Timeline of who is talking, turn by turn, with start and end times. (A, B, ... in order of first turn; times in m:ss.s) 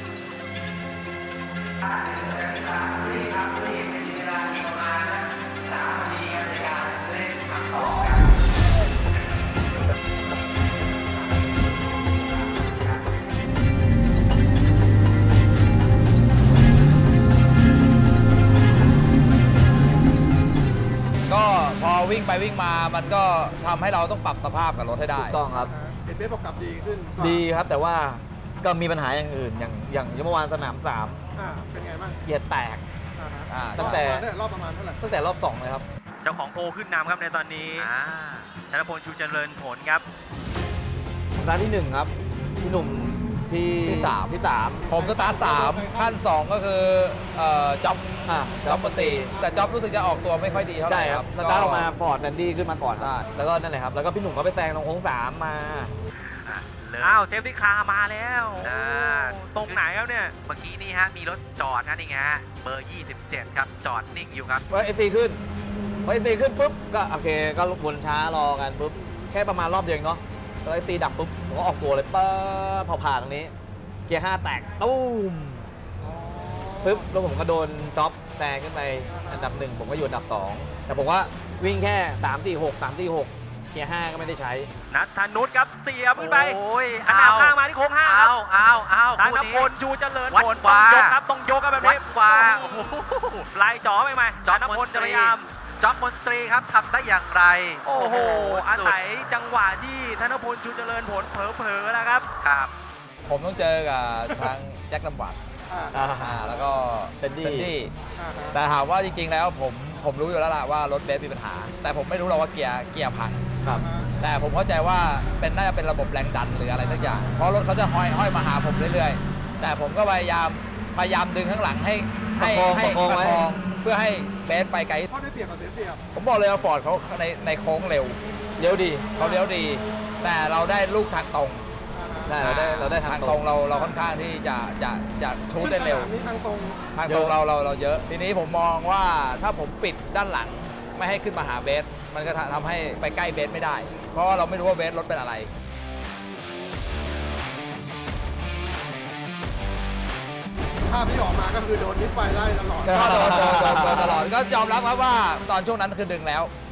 0:01.8-0:08.4 A
0:12.3-0:13.0 A
0:21.3-0:25.4 B
0:25.2-0:25.7 C
0:25.7-0:27.4 D
0:27.2-0:31.2 C
0:31.4-0:32.2 D
0:32.2-0:32.8 C
0:33.2-0:35.0 D
0:33.5-0:34.0 B
0:33.8-0:34.3 C
0:35.0-0:35.8 C
0:36.2-0:37.9 E
0:37.8-0:38.5 A
0:38.7-0:40.0 E
0:41.4-0:44.9 C
0:43.8-0:44.4 B
0:44.8-0:46.2 D
0:44.9-0:48.1 B
0:48.3-0:49.4 C
0:48.6-0:51.9 B
0:50.9-0:55.9 C
0:53.0-0:53.2 B
0:56.4-0:57.2 A
0:57.0-1:00.3 E
0:58.6-0:59.8 A
1:00.4-1:04.6 A
1:04.7-1:05.4 C
1:06.0-1:13.5 C
1:14.1-1:15.7 C
1:16.0-1:17.0 D
1:16.8-1:24.7 C
1:19.1-1:19.5 D
1:24.9-1:28.4 E
1:26.2-1:29.7 A
1:29.1-1:35.5 E
1:30.3-1:31.2 A
1:31.8-1:33.4 A
1:34.4-1:39.0 A
1:37.8-1:42.3 E
1:42.4-1:42.7 A
1:43.2-1:45.4 B
1:45.7-1:46.0 D
1:45.9-1:46.5 C
1:46.1-1:47.9 B
1:47.2-1:47.7 C
1:48.2-1:48.6 D
1:48.5-1:53.5 B
1:53.8-1:54.1 D
1:54.2-2:05.1 B
2:02.4-2:03.5 C
2:05.1-2:06.0 D
2:06.1-2:08.2 B
2:08.6-2:09.1 C
2:09.2-2:11.7 B
2:11.9-2:12.4 D
2:12.2-2:13.4 C
2:12.4-2:16.1 B
2:15.6-2:16.8 D
2:16.9-2:25.5 B
2:17.0-2:17.4 C
2:30.9-2:33.6 D
2:32.8-2:34.2 C
2:32.9-2:36.5 B